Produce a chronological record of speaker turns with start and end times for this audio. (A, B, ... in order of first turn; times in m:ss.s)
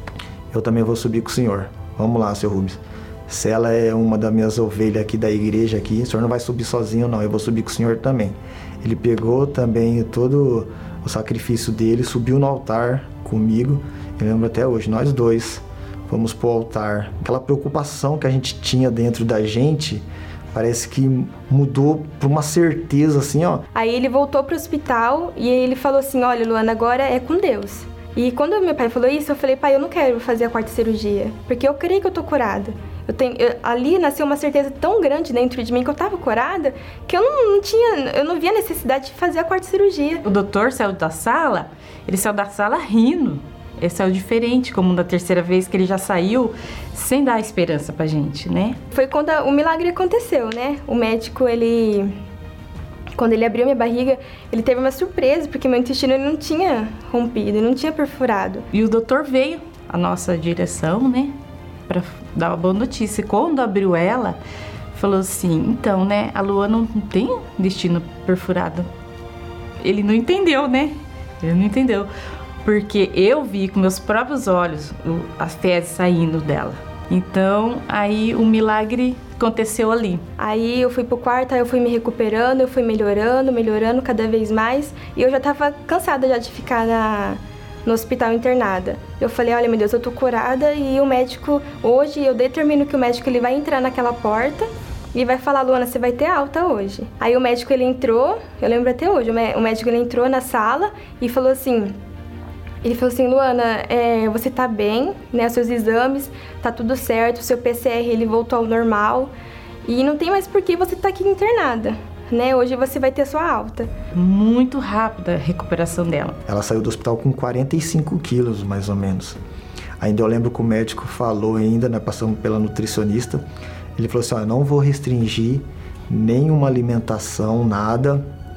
0:00.5-0:23.6 A
0:23.8-0:40.2 B
0:40.2-0:48.8 C
0:48.9-0:52.1 B
0:53.2-0:58.7 B
0:58.7-1:01.4 C
1:01.9-1:04.4 C
1:04.9-1:08.9 C
1:09.8-1:12.1 C
1:12.6-1:20.2 C
1:20.4-1:42.0 B
1:42.8-1:49.3 B
1:49.8-1:53.9 B
1:54.1-1:56.4 C
1:56.5-1:59.4 A
2:00.0-2:03.4 A
2:04.0-2:08.3 A